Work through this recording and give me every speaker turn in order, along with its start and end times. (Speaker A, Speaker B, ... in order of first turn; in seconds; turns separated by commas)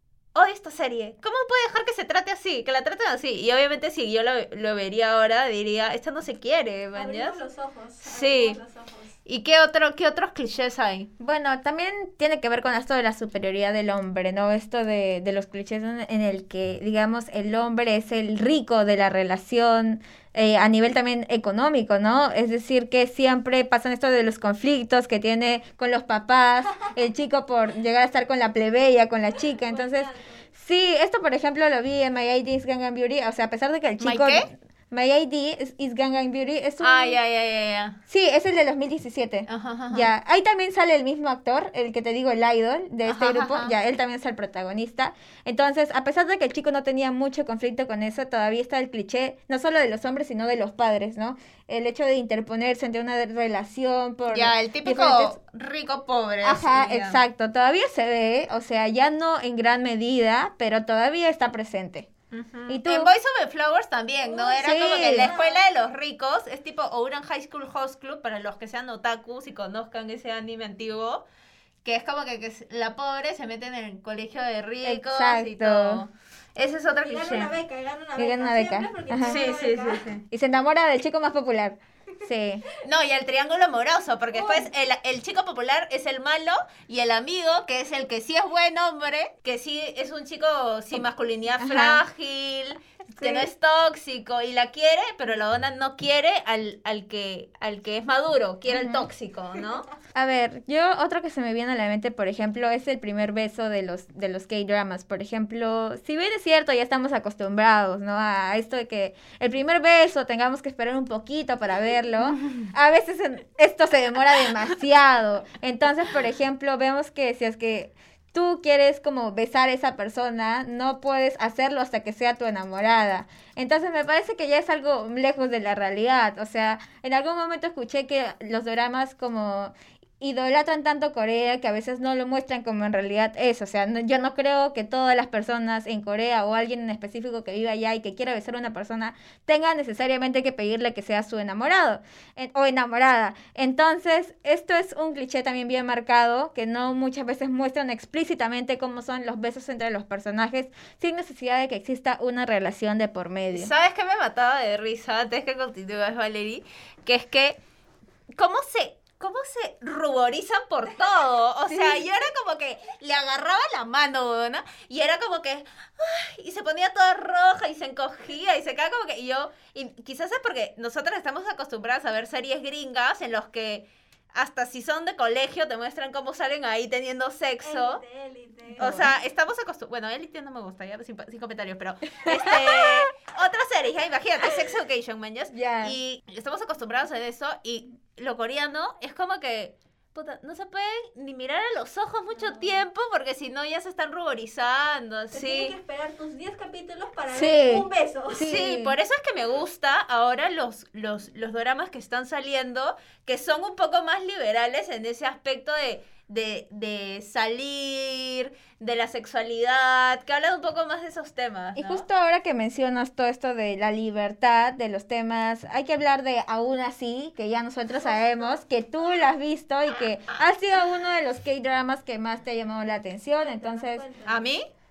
Speaker A: 0.3-7.4, Speaker B: 7.0-9.2, Speaker A: 8.0-8.6, Speaker A: 9.3-11.1, Speaker C: 11.2-37.2, Speaker B: 29.4-30.5, Speaker A: 34.0-34.5, Speaker A: 36.8-38.0, Speaker C: 38.1-55.4, Speaker A: 39.5-40.1, Speaker A: 43.0-43.7, Speaker A: 54.3-57.2, Speaker C: 56.4-62.1, Speaker A: 62.3-71.2, Speaker C: 62.7-63.1, Speaker B: 64.2-64.6, Speaker C: 64.5-65.3, Speaker B: 65.2-65.7, Speaker A: 71.8-77.5, Speaker C: 74.8-76.0, Speaker B: 77.0-80.0, Speaker C: 78.2-79.4, Speaker A: 79.3-80.2, Speaker C: 80.3-82.7, Speaker A: 82.8-99.9, Speaker B: 84.3-84.7, Speaker C: 91.6-92.0, Speaker C: 93.2-93.5, Speaker C: 98.7-99.1, Speaker C: 100.1-153.7, Speaker A: 112.4-112.7, Speaker A: 153.5-157.6, Speaker A: 158.3-178.0, Speaker C: 161.7-162.1, Speaker B: 177.6-178.9, Speaker C: 178.8-179.1, Speaker A: 178.8-195.7, Speaker C: 182.2-183.0, Speaker C: 185.5-186.0, Speaker B: 192.4-192.8, Speaker B: 195.3-198.5, Speaker C: 197.3-199.0, Speaker A: 198.4-212.1, Speaker C: 211.8-224.0, Speaker B: 217.9-218.6, Speaker B: 223.4-224.4, Speaker A: 224.2-224.7